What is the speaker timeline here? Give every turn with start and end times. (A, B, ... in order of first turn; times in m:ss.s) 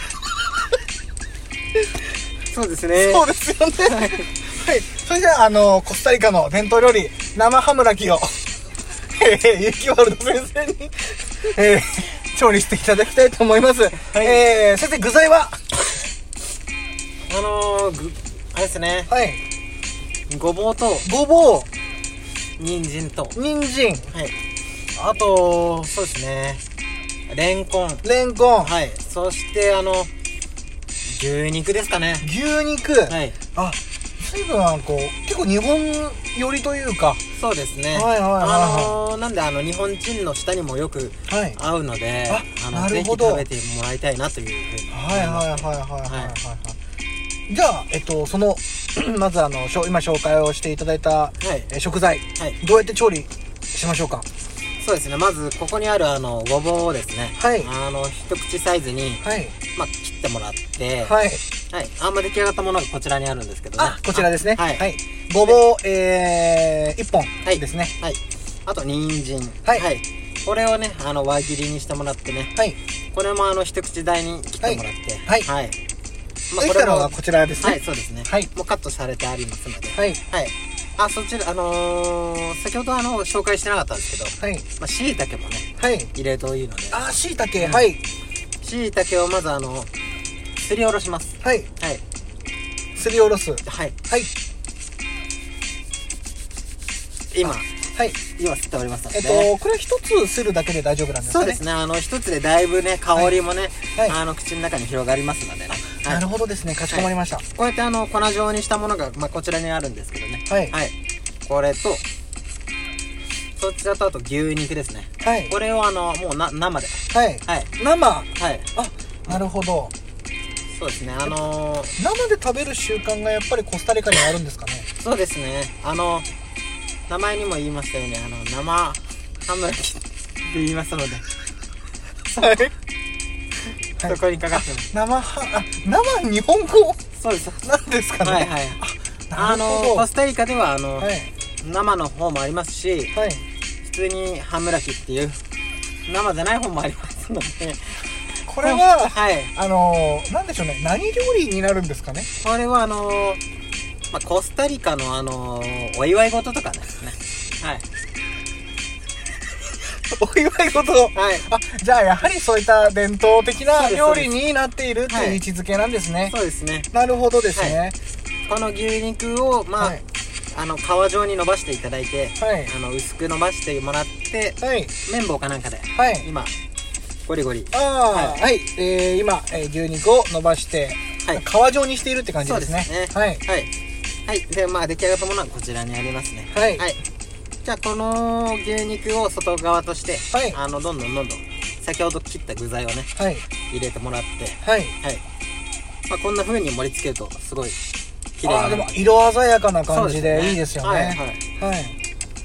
0:02.5-0:03.2 A
0:02.9-0:08.4 B
0:03.8-0:04.2 A
0:09.2-0:15.6 B
0:14.1-0:14.4 A
0:17.3-0:19.1 A
0:19.1-0:19.4 B
0:20.3-0:21.1 A
0:21.0-0:21.7 B
0:22.6-0:23.4 A
0:23.3-0:24.1 B
0:24.1-0:24.4 A
0:25.0-0:26.6 A
0:27.3-0:28.0 A
0:28.0-0:28.7 B
0:28.6-0:30.1 A
0:31.0-0:32.3 A
0:32.2-0:37.2 B
0:33.1-0:33.4 A
0:37.3-0:46.4 A
0:37.9-0:39.0 B
0:41.3-0:41.6 B
0:42.3-0:43.4 B
0:44.9-0:46.8 B
0:47.5-0:54.2 B
0:51.4-0:51.7 A
0:54.8-0:59.2 A
0:57.4-0:57.7 B
0:59.2-0:59.5 B
0:59.7-1:01.1 A
1:01.0-1:01.4 B
1:01.7-1:04.8 A
1:03.8-1:07.9 B
1:07.4-1:12.5 A
1:13.1-1:15.8 A
1:14.6-1:15.5 B
1:16.5-1:27.0 A
1:16.6-1:18.5 B
1:19.9-1:20.2 B
1:24.4-1:24.6 B
1:25.8-1:26.1 B
1:26.9-1:28.0 B
1:27.6-1:27.9 A
1:28.6-1:29.9 A
1:30.6-1:32.0 A
1:31.4-1:31.7 B
1:33.0-1:34.3 B
1:33.6-1:33.9 A
1:37.3-1:37.7 A
1:37.4-1:38.2 B
1:38.3-1:39.5 A
1:39.1-1:41.6 B
1:41.2-1:46.2 A
1:46.0-1:47.4 B
1:46.9-1:50.9 A
1:50.5-1:50.7 B
1:51.4-1:52.0 A
1:53.6-1:57.7 A
1:55.2-1:55.5 B
1:57.1-1:59.9 B
1:58.4-1:58.7 A
2:00.7-2:01.9 A
2:02.0-2:04.9 B
2:05.0-2:06.3 A
2:07.1-2:11.2 A
2:12.3-2:12.7 B
2:14.0-2:17.0 B
2:14.0-2:14.9 A
2:17.1-2:17.7 A
2:17.6-2:20.1 B
2:18.2-2:18.8 A
2:19.3-2:23.1 A
2:21.0-2:21.3 B
2:23.1-2:23.4 B
2:23.8-2:25.4 A
2:26.1-2:29.5 A
2:28.4-2:32.3 B
2:32.4-2:33.4 A
2:34.1-2:37.8 A
2:40.1-2:46.3 B
2:41.1-2:41.5 A
2:43.7-2:44.3 A
2:45.1-2:45.4 A
2:46.3-2:46.9 A
2:46.9-2:47.9 B
2:47.5-2:47.8 A
2:48.5-2:50.0 A
2:50.5-2:56.5 A
2:52.4-2:52.7 B
2:54.6-2:54.9 B
2:55.9-2:56.3 B
2:57.2-2:58.4 A
2:57.7-3:03.4 B
3:02.4-3:03.7 A
3:04.3-3:07.0 A
3:06.5-3:06.9 B
3:07.6-3:13.1 A
3:10.3-3:10.6 B
3:13.2-3:13.4 B
3:13.7-3:15.2 A
3:14.6-3:14.9 B
3:16.1-3:17.8 A
3:18.4-3:19.0 A
3:18.4-3:21.9 B
3:19.9-3:21.4 A